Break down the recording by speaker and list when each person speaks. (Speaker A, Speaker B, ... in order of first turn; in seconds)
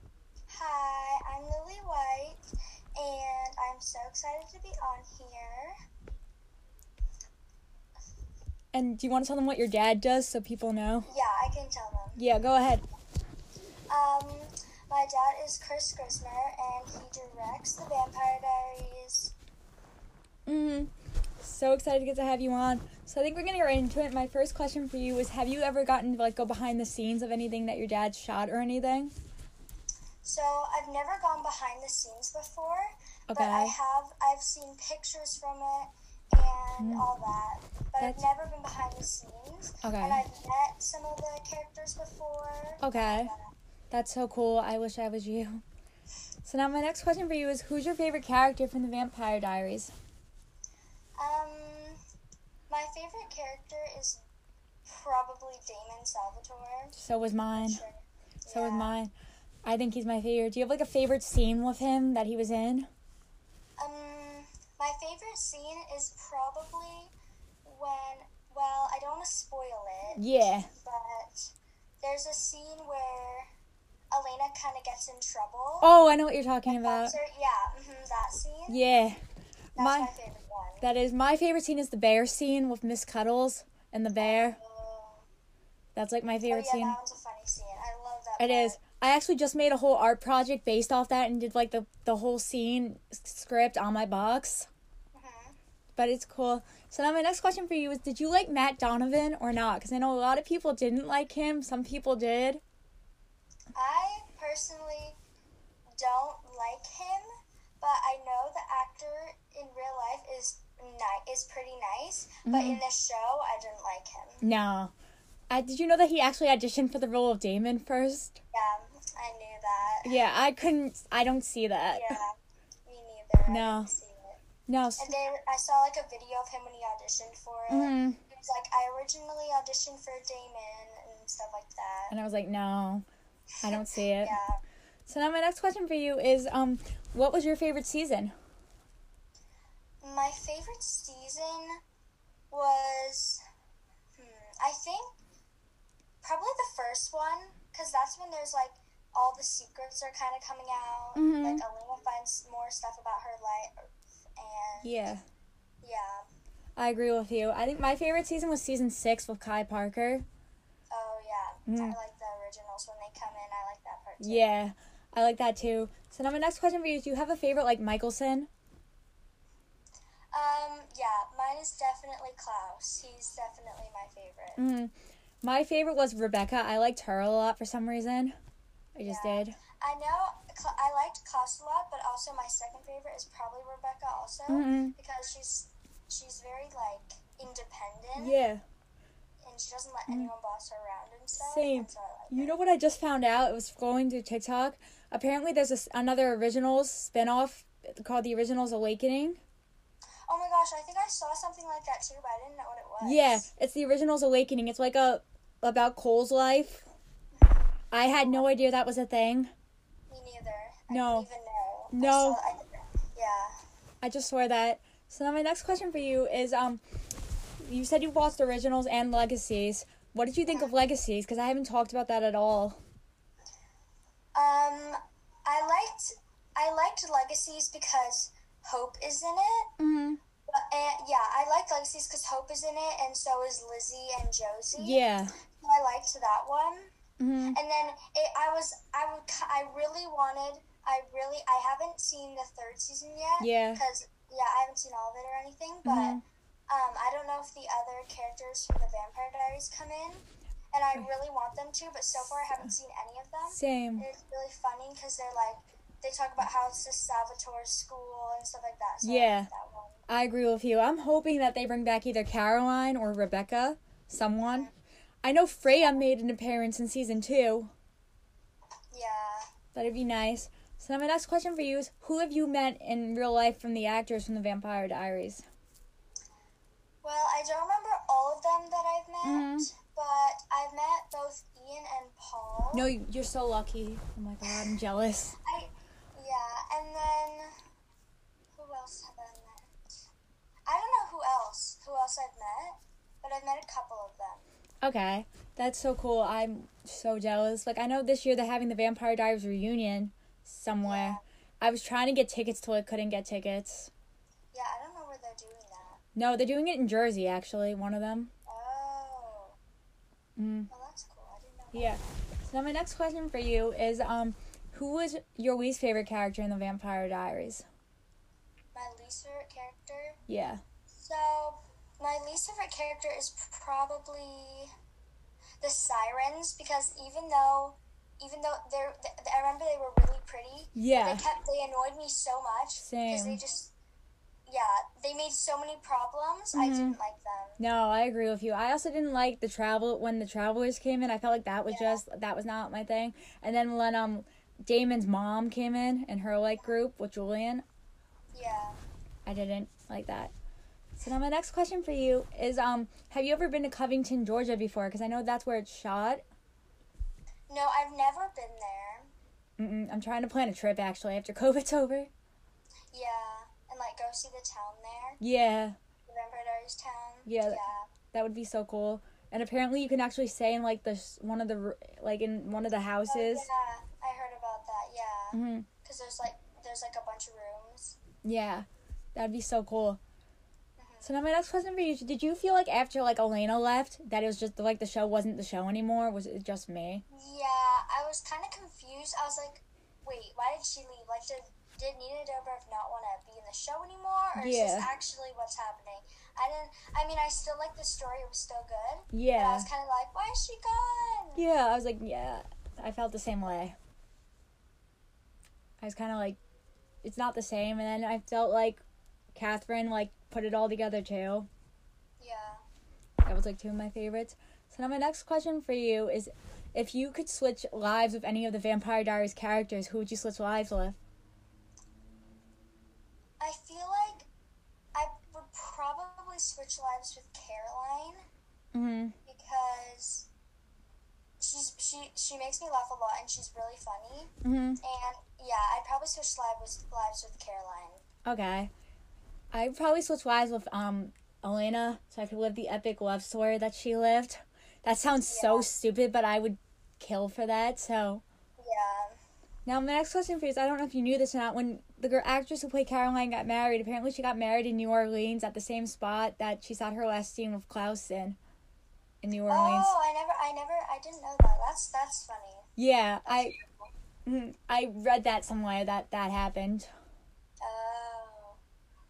Speaker A: 0.5-2.4, 3.0-5.7, 11.1-12.2, 13.9-19.3, 30.2-43.5, 51.2-52.0, 52.7-54.2, 54.9-57.0, 57.5-59.0, 63.8-67.1, 67.6-73.5, 74.1-75.9, 76.7-78.8, 79.8-80.9, 84.2-85.2, 86.4-88.8, 95.1-95.6, 103.7-105.2, 106.0-107.2, 107.8-114.5, 118.5-120.2, 121.9-122.3, 122.8-124.4, 125.0-132.2, 133.6-134.6, 140.0-141.8, 142.5-143.4, 144.2-145.1, 146.2-155.2, 155.8-156.2, 160.9-164.6, 170.3-174.6, 179.0-188.4, 189.4-192.6, 200.3-203.5, 207.3-208.7, 210.1-213.5, 224.3-229.7, 230.5-235.0, 235.6-236.9, 237.5-246.2, 246.7-260.0, 264.4-264.7, 265.7-266.0, 268.9-269.5, 277.0-282.9, 284.4-284.7, 285.4-287.5, 288.5-290.0, 290.7-294.5, 300.8-301.2, 304.5-306.0, 308.5-309.6, 310.7-312.1, 318.8-320.2, 320.9-324.7, 325.6-333.7, 334.5-337.6, 341.7-342.0, 348.3-348.8, 357.5-359.1, 362.9-365.2, 366.1-367.9, 373.1-378.0, 380.8-381.1, 387.1-401.4, 412.2-412.6, 423.4-424.3, 424.9-428.2, 429.3-430.3, 431.4-438.0, 445.3-445.7, 448.6-449.2, 459.5-462.7, 463.2-463.9, 467.6-468.6
Speaker B: 8.7-11.1, 12.2-12.8, 20.4-29.1, 33.3-33.8, 36.8-37.0, 39.8-40.2, 42.8-43.3, 43.9-45.6, 46.4-49.9, 56.9-57.8, 58.5-59.1, 59.6-62.9, 70.2-70.7, 75.8-77.2, 78.7-79.2, 79.8-80.1, 80.8-84.6, 85.9-87.0, 88.4-94.7, 96.0-102.6, 112.5-112.8, 114.4-114.9, 115.5-118.4, 120.0-122.2, 123.5-123.9, 124.7-125.1, 127.7-128.2, 132.1-133.0, 133.6-134.3, 135.1-138.3, 151.2-151.6, 154.8-155.2, 156.8-160.2, 161.7-162.0, 164.2-168.5, 174.6-178.3, 179.0-179.6, 184.5-184.9, 188.2-188.6, 191.4-199.4, 203.0-206.9, 207.9-209.5, 210.9-211.3, 211.9-212.4, 214.0-216.8, 217.6-222.8, 229.8-230.2, 234.8-235.4, 237.2-237.6, 243.4-243.8, 245.8-246.2, 253.5-254.1, 259.0-259.5, 260.1-264.7, 265.2-267.7, 269.7-275.4, 279.2-279.7, 282.7-285.4, 294.8-303.9, 306.1-308.3, 310.4-310.7, 311.7-317.6, 320.3-320.6, 330.8-331.2, 332.8-333.4, 336.5-337.0, 337.6-347.6, 349.2-350.3, 351.0-356.2, 359.6-362.1, 365.2-365.8, 367.2-367.6, 368.1-373.5, 375.3-375.7, 378.2-380.0, 381.0-387.0, 394.4-394.9, 399.1-399.7, 401.4-403.8, 405.8-406.4, 407.0-408.8, 409.3-411.5, 413.2-421.0, 428.7-429.1, 434.4-434.8, 438.2-438.7, 439.5-448.2, 449.6-458.4, 459.2-459.9, 462.8-463.5, 464.2-466.9